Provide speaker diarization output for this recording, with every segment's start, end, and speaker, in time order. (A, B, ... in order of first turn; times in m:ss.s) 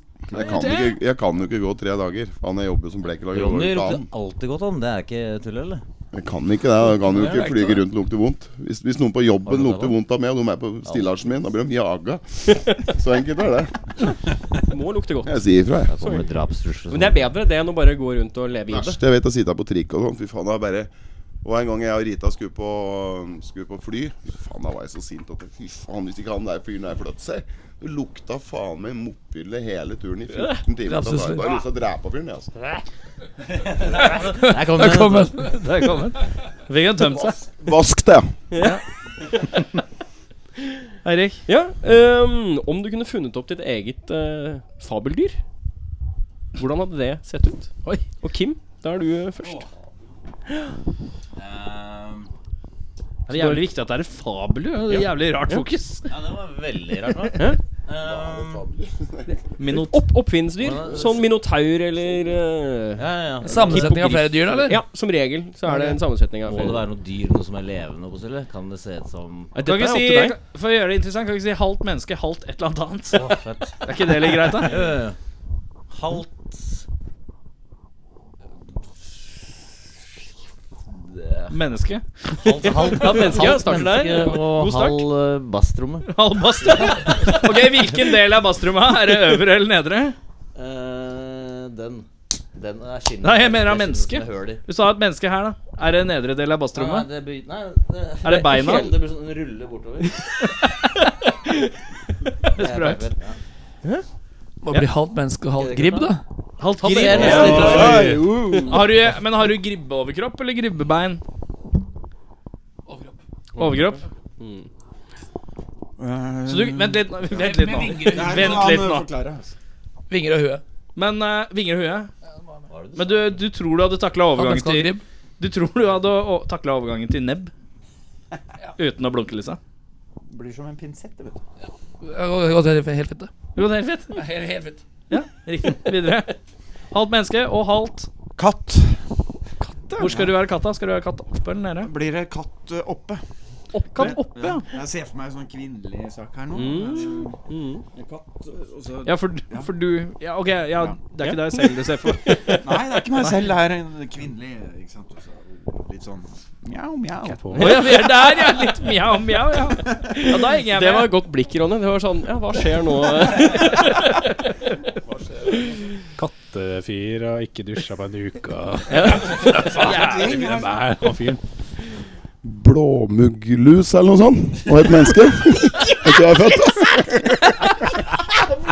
0:00.3-0:04.1 A
0:00.3-0:01.0 B
0:03.3-0:05.8 C
0:06.1-0:13.9 A
0:07.1-0:07.8 C
0:09.4-0:10.0 C
0:10.8-0:11.1 C
0:14.7-0:16.2 D
0:15.2-0:15.9 A
0:15.9-0:17.3 C
0:16.9-0:19.0 D
0:18.7-0:20.9 A
0:21.4-0:32.5 A
0:30.8-0:31.6 E
0:33.5-0:35.4 C
0:34.2-0:35.6 E
0:35.4-0:37.4 B
0:37.0-0:38.3 A
0:38.5-0:38.8 D
0:41.0-0:41.4 B
0:41.4-0:45.4 D
0:46.6-0:49.6 D
0:51.4-0:52.3 C
0:53.3-0:56.1 B
0:53.3-0:53.6 D
0:56.1-0:58.7 C
0:58.0-0:59.3 A
0:59.6-1:00.0 B
0:59.6-1:06.8 D
1:00.6-1:01.3 C
1:03.0-1:04.0 C
1:03.4-1:04.8 E
1:05.7-1:06.0 E
1:06.4-1:09.5 C
1:09.5-1:10.4 D
1:09.6-1:13.3 B
1:13.1-1:15.2 C
1:13.8-1:14.8 B
1:15.9-1:16.8 C
1:19.0-1:19.3 C
1:20.9-1:21.6 C
1:21.5-1:25.0 B
1:22.3-1:27.5 C
1:22.8-1:24.4 D
1:26.1-1:30.2 B
1:30.5-1:34.6 C
1:33.2-1:37.1 B
1:36.7-1:40.2 C
1:38.2-1:38.9 B
1:38.4-1:38.9 D
1:40.4-1:41.6 B
1:42.5-1:43.0 B
1:42.6-1:43.4 C
1:44.6-1:46.2 E
1:45.5-1:46.1 C
1:46.6-1:48.0 B
1:46.8-1:48.1 C
1:46.8-1:48.1 D
1:47.2-1:48.8 F
1:47.7-1:48.2 G
1:48.6-1:51.2 B
1:52.9-1:53.2 E
1:53.6-1:54.0 B
1:54.4-1:54.7 D
1:56.0-1:57.2 F
1:56.5-1:59.0 B
1:57.3-1:58.7 E
1:57.9-1:59.5 F
2:00.1-2:00.6 E
2:01.0-2:02.1 B
2:02.4-2:02.6 E
2:02.7-2:03.4 C
2:03.0-2:07.5 B
2:04.4-2:05.0 E
2:08.8-2:09.6 B
2:10.3-2:11.4 F
2:11.6-2:13.3 E
2:13.6-2:14.2 B
2:14.1-2:14.8 E
2:15.1-2:16.4 B
2:16.9-2:18.1 B
2:18.4-2:19.0 F
2:19.8-2:20.4 F
2:20.0-2:21.9 B
2:21.8-2:23.2 F
2:23.7-2:24.2 D
2:23.9-2:24.7 B
2:23.9-2:27.4 F
2:26.5-2:27.8 D
2:27.9-2:29.7 F
2:29.0-2:32.6 B
2:30.7-2:31.0 F
2:31.2-2:31.5 D
2:32.1-2:32.7 D
2:32.5-2:38.1 F
2:37.2-2:37.8 G
2:37.6-2:41.1 B
2:39.9-2:40.2 F
2:40.2-2:44.2 D
2:46.1-2:51.4 G
2:48.9-2:49.4 D
2:49.4-2:50.8 F
2:49.8-2:50.5 B
2:52.4-2:57.8 A